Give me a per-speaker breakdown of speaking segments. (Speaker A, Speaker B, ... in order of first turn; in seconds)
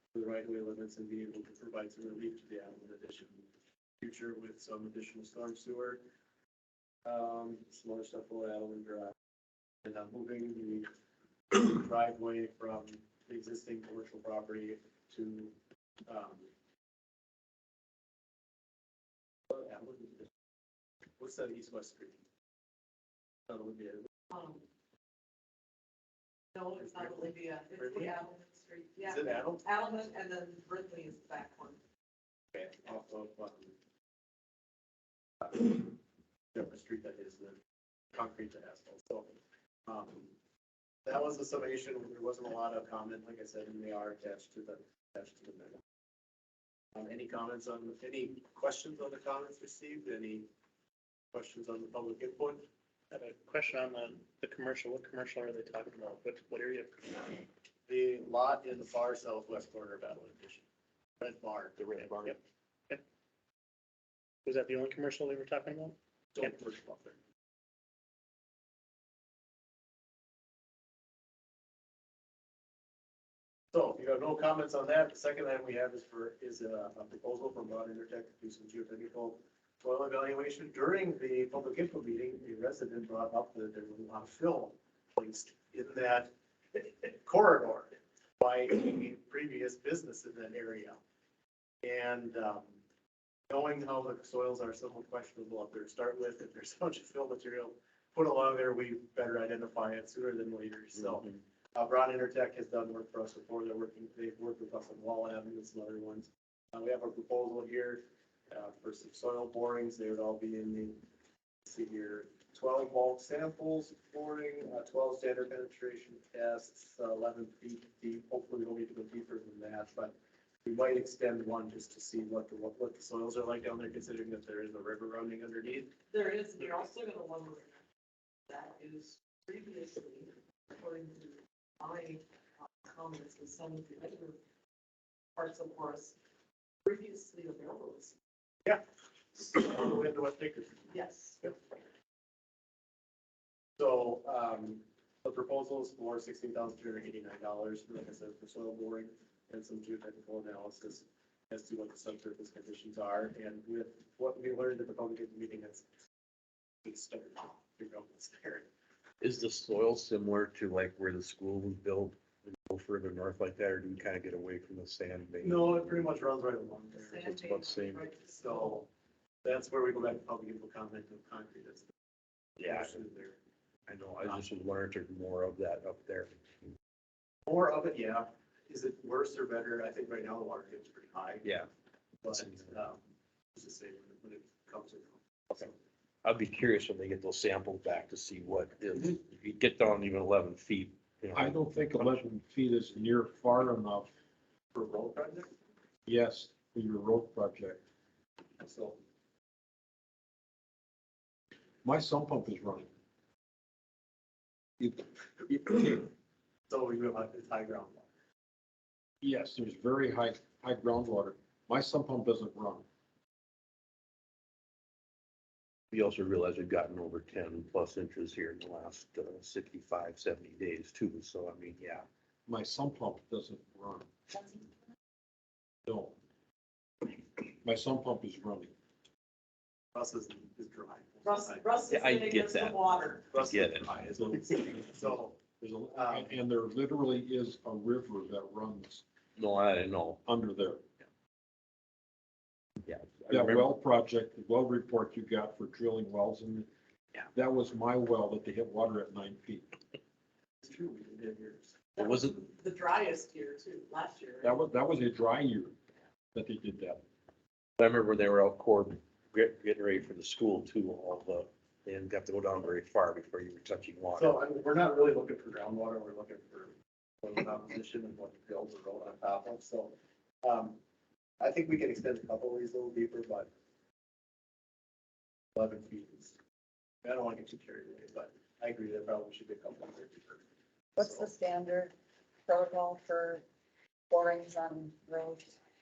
Speaker A: 0.1-3.5, 4.0-6.0, 7.0-9.1, 9.8-10.9, 11.5-15.6, 16.1-16.5, 19.5-20.3, 21.2-22.2, 23.5-24.1, 26.8-28.2, 29.0-29.6, 32.5-33.8, 35.5-36.0, 36.5-37.6, 38.1-39.4, 39.9-40.3, 41.1-45.8, 47.0-50.5, 51.3-52.7, 57.9-60.6, 61.2-61.8, 66.3-67.2, 73.7-91.0, 91.8-92.8, 93.5-111.0, 111.7-125.9, 139.3-140.9, 143.8-155.8, 156.8-158.7, 165.4-167.3, 168.3-168.9, 169.4-171.9, 172.6-173.4, 177.5-181.5, 182.2-183.0, 183.6-185.7, 194.7-195.5, 198.6-199.0, 206.7-208.1, 229.9-231.7, 233.3-235.4, 235.9-236.4, 250.6-251.8, 264.1-270.8, 271.4-273.5, 275.6-276.4, 277.0-280.4
Speaker B: 24.3-24.6, 26.6-31.8, 126.1-127.8, 128.5-132.2, 132.8-134.4, 135.4-136.2, 136.8-138.1, 140.9-141.4, 166.9-168.8, 231.2-233.2, 252.0-254.5
Speaker C: 53.1-57.4, 64.5-66.6
Speaker D: 61.8-62.4, 101.0-101.3, 159.2-165.9, 167.2-168.1, 172.6-173.0, 173.9-176.7, 181.4-181.7, 182.3-182.7, 186.2-192.2, 215.9-222.1, 231.9-233.9, 239.4-240.2, 242.8-243.7, 252.0-252.4, 257.8-264.3
Speaker E: 191.3-194.1, 196.1-197.8, 201.8-202.9, 204.8-206.1, 209.2-212.8, 222.5-224.1, 225.9-226.2, 227.6-228.7, 234.2-239.0, 240.2-240.8, 243.3-246.7, 247.3-249.7, 254.4-255.8, 256.4-257.0
Speaker F: 281.0-281.9, 282.5-283.4, 284.1-285.6